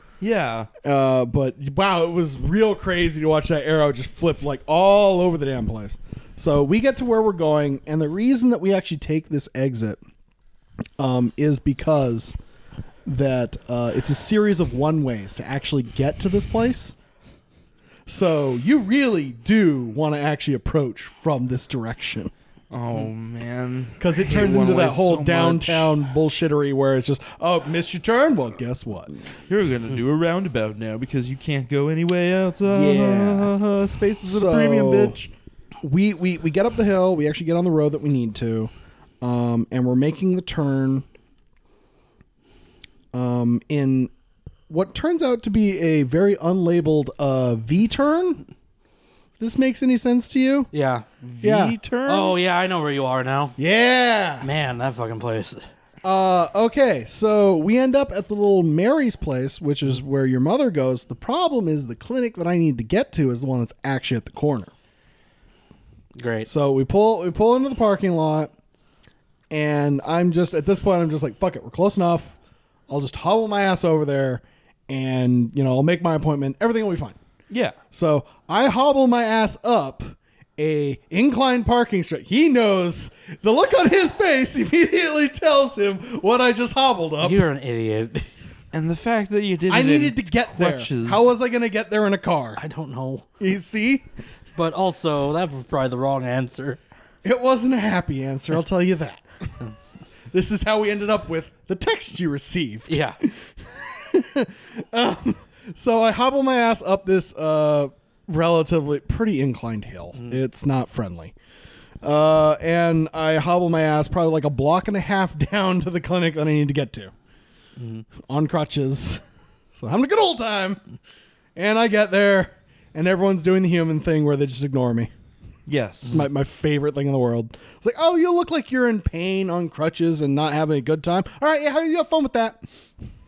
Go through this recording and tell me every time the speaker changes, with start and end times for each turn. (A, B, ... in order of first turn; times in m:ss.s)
0:00.2-0:00.7 A
0:00.8-0:10.0 B
0:11.0-0:12.4 B
0:13.1-0:17.0 B
0:18.1-0:22.3 B
0:22.7-0:26.0 A
0:24.0-0:29.1 B
0:29.5-0:35.2 A
0:32.7-0:33.6 B
0:34.2-0:35.3 B
0:35.8-0:38.7 B
0:39.2-0:41.1 B
0:43.1-0:44.1 B
0:44.7-0:48.5 B
0:49.4-0:50.7 B
0:50.7-0:51.1 C
0:51.2-0:52.4 A
0:51.4-0:51.8 B
0:52.1-0:53.6 C
0:53.6-0:54.5 B
0:54.4-0:55.6 C
0:56.0-1:04.7 B
1:06.2-1:06.5 C
1:06.5-1:08.5 B
1:09.5-1:12.4 B
1:12.9-1:17.2 B
1:17.5-1:17.8 A
1:17.9-1:27.5 B
1:27.2-1:28.3 C
1:28.7-1:31.3 A
1:29.7-1:32.6 B
1:32.6-1:33.3 C
1:33.4-1:34.0 B
1:34.6-1:36.8 C
1:37.2-1:39.2 B
1:40.3-1:51.4 B
1:42.9-1:43.2 C
1:52.0-1:57.1 B
1:57.8-1:58.0 C
1:58.2-1:59.2 B
1:59.7-2:00.8 B
2:01.6-2:05.1 B
2:05.7-2:06.2 A
2:06.1-2:12.6 B